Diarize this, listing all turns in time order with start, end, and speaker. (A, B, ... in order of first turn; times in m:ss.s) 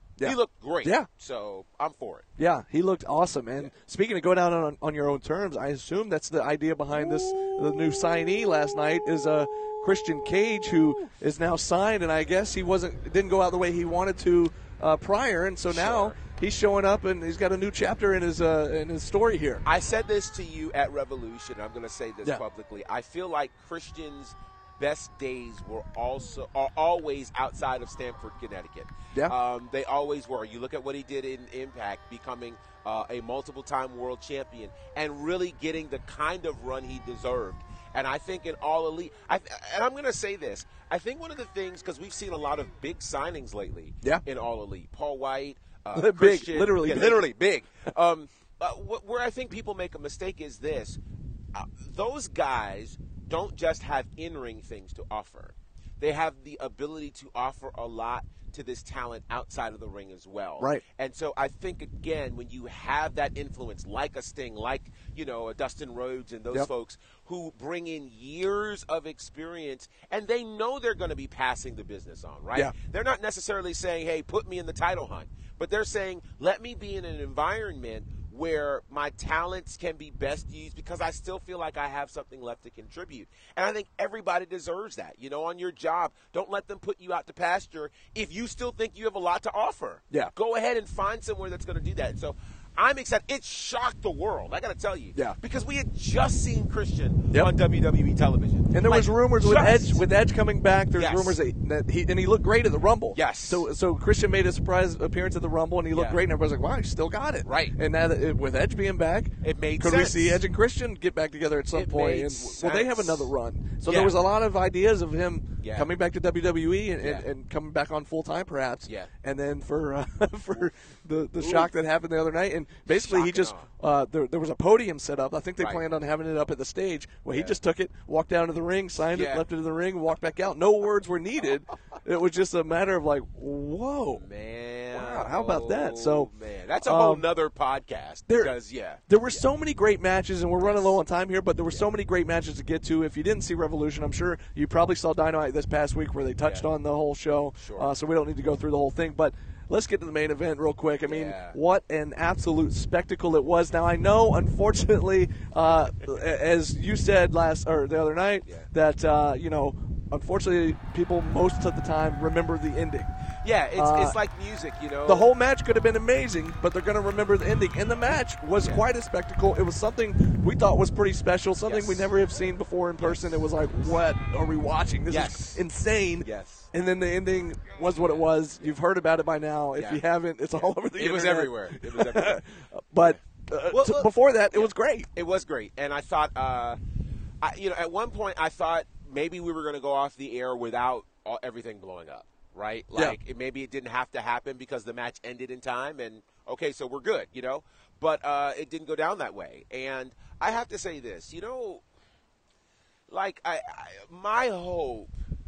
0:00.2-0:01.1 A
0:00.2-0:02.3 B
0:02.4-0:19.6 A
0:15.7-0:16.2 B
0:19.6-0:51.0 B
0:45.9-0:47.3 A
0:51.5-1:40.0 B
1:38.7-2:14.2 A
1:41.0-1:41.4 B
1:43.1-1:43.6 B
1:45.9-1:46.2 B
1:47.4-1:47.7 B
1:49.4-1:50.4 B
1:51.7-1:53.3 B
1:53.8-1:54.2 B
1:55.6-1:55.9 B
1:57.0-1:57.2 B
2:01.4-2:01.7 B
2:02.9-2:03.7 B
2:05.6-2:05.9 B
2:07.3-2:07.6 B
2:09.1-2:09.4 B
2:14.1-2:19.4 B
2:14.9-2:16.3 A
2:16.8-2:17.2 A
2:18.3-2:18.5 A
2:19.0-2:43.1 A
2:20.6-2:20.9 B
2:27.6-2:27.9 B
2:31.0-2:31.6 B
2:43.4-2:45.3 B
2:43.8-2:44.2 A
2:45.0-3:05.1 A
2:51.6-2:52.0 B
2:53.0-2:53.4 B
2:55.1-2:55.6 B
2:56.2-2:56.7 B
2:58.0-2:58.2 B
2:59.8-3:00.0 B
3:00.5-3:02.4 B
3:03.7-3:06.8 B
3:07.4-3:21.8 B
3:23.1-3:25.1 B